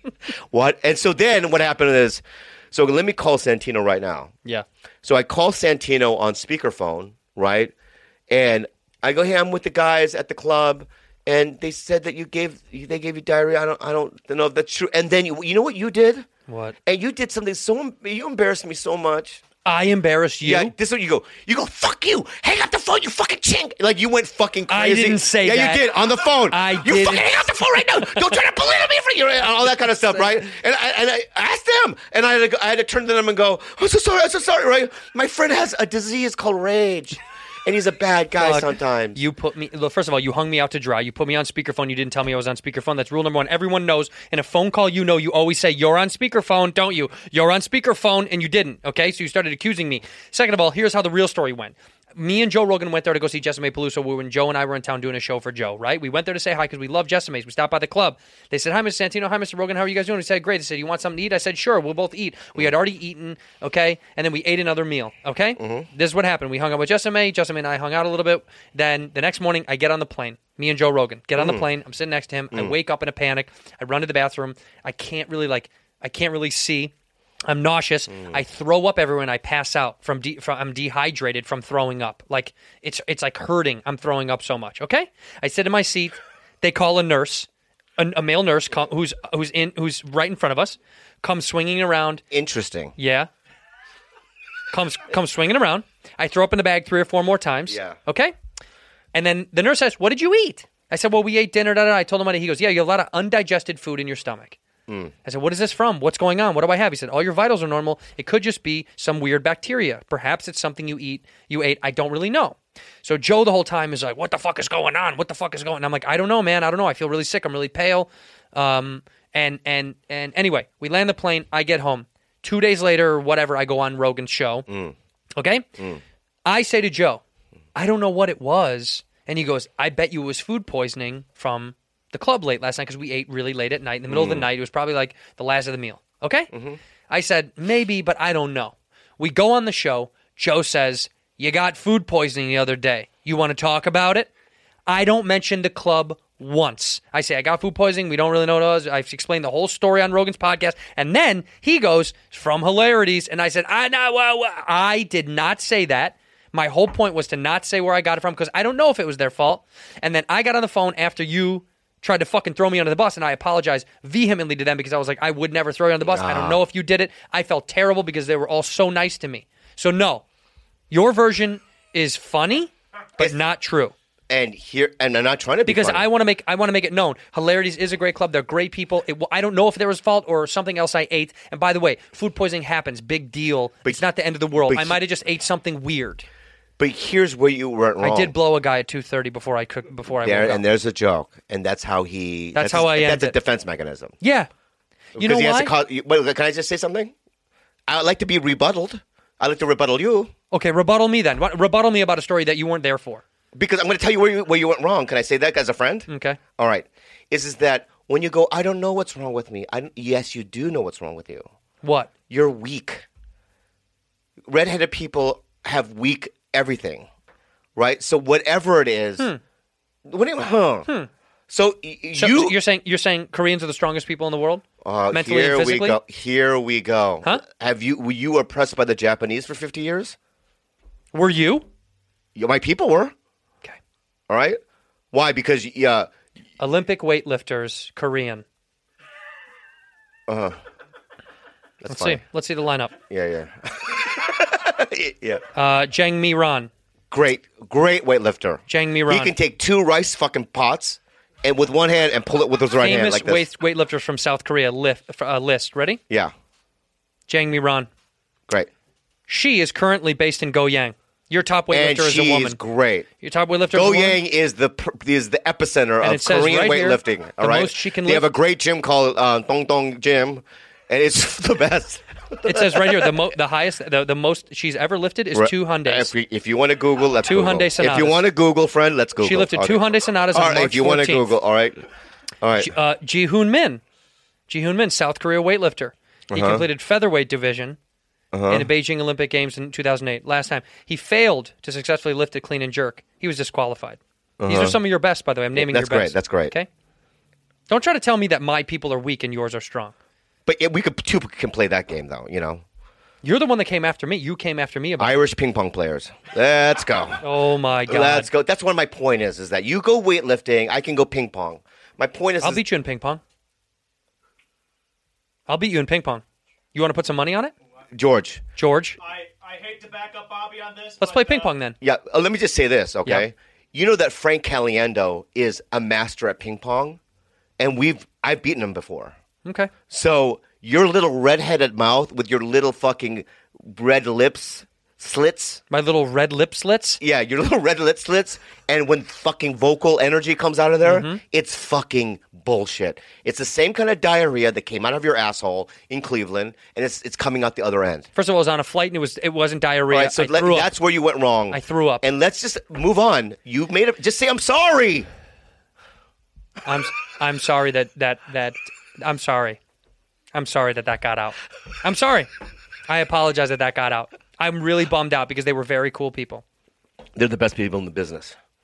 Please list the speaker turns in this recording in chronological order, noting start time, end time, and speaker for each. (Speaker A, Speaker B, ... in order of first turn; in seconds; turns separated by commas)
Speaker A: 0.5-4.3, Speaker A: 5.0-7.7, Speaker A: 8.3-16.3, Speaker B: 16.5-16.8, Speaker A: 16.8-19.4, Speaker B: 19.6-20.7, Speaker A: 20.4-39.2, Speaker B: 24.7-25.9, Speaker B: 26.5-27.3, Speaker B: 38.4-76.9, Speaker A: 65.6-65.9, Speaker A: 71.4-71.7, Speaker B: 77.5-92.2, Speaker A: 78.1-78.4, Speaker A: 92.3-92.9, Speaker B: 93.0-93.3, Speaker B: 94.7-98.3, Speaker A: 97.7-98.0, Speaker B: 99.1-104.6, Speaker A: 104.9-105.1, Speaker B: 105.2-124.7, Speaker A: 124.7-124.9, Speaker B: 125.4-125.7, Speaker B: 126.4-127.2, Speaker B: 127.7-136.5, Speaker A: 134.1-134.5, Speaker A: 136.5-136.8, Speaker B: 137.1-144.3, Speaker B: 144.9-170.2, Speaker A: 166.1-166.6, Speaker B: 170.9-173.9, Speaker A: 174.3-176.1, Speaker B: 175.7-186.2, Speaker A: 184.7-185.0, Speaker A: 186.8-188.3, Speaker B: 188.0-190.6, Speaker A: 190.2-194.2, Speaker B: 192.5-193.3, Speaker B: 194.2-194.5, Speaker B: 195.1-195.7, Speaker A: 195.2-197.1, Speaker A: 197.9-200.3, Speaker B: 200.5-203.2, Speaker A: 203.5-211.5, Speaker B: 206.1-206.4, Speaker B: 211.8-212.1, Speaker A: 212.3-213.1, Speaker A: 214.4-217.1, Speaker A: 217.8-219.3, Speaker A: 220.1-220.9, Speaker A: 221.5-222.6, Speaker B: 222.1-226.0, Speaker A: 224.8-230.2, Speaker B: 231.1-231.7, Speaker A: 232.3-233.1, Speaker A: 234.3-234.6, Speaker A: 235.1-236.1, Speaker B: 236.6-238.4, Speaker A: 240.3-240.6, Speaker A: 241.8-242.2, Speaker B: 241.9-242.9, Speaker A: 243.1-245.4, Speaker B: 245.5-246.7, Speaker A: 247.1-253.5, Speaker B: 248.7-249.3, Speaker B: 252.8-256.0, Speaker B: 257.3-257.9, Speaker B: 259.3-262.6, Speaker A: 261.7-263.1, Speaker B: 263.2-264.2, Speaker A: 263.7-273.1, Speaker B: 266.0-268.3, Speaker B: 272.4-276.1, Speaker A: 275.3-281.8, Speaker B: 277.2-278.2, Speaker B: 279.2-281.3, Speaker A: 282.4-282.7, Speaker B: 282.6-283.8, Speaker B: 284.5-287.8, Speaker A: 286.3-286.6, Speaker A: 288.3-288.7, Speaker B: 288.5-296.7, Speaker A: 294.4-294.8, Speaker A: 295.5-296.5, Speaker B: 297.7-299.9, Speaker A: 300.4-302.6, Speaker B: 303.2-305.1, Speaker A: 305.0-307.2, Speaker B: 307.2-308.3, Speaker A: 307.9-312.6, Speaker B: 312.4-313.2, Speaker B: 315.5-316.2, Speaker B: 316.7-317.5, Speaker A: 317.9-318.4, Speaker B: 318.6-319.0, Speaker C: 319.0-321.5, Speaker B: 321.0-321.8, Speaker A: 321.8-327.0, Speaker A: 327.6-329.1, Speaker B: 329.4-329.7, Speaker A: 329.9-335.6, Speaker B: 335.7-337.0, Speaker A: 337.0-348.1, Speaker B: 340.8-341.2, Speaker B: 348.1-350.7, Speaker A: 349.9-355.1, Speaker B: 351.5-352.0, Speaker B: 356.6-359.6, Speaker B: 360.3-362.3, Speaker B: 362.9-366.4, Speaker A: 367.1-368.4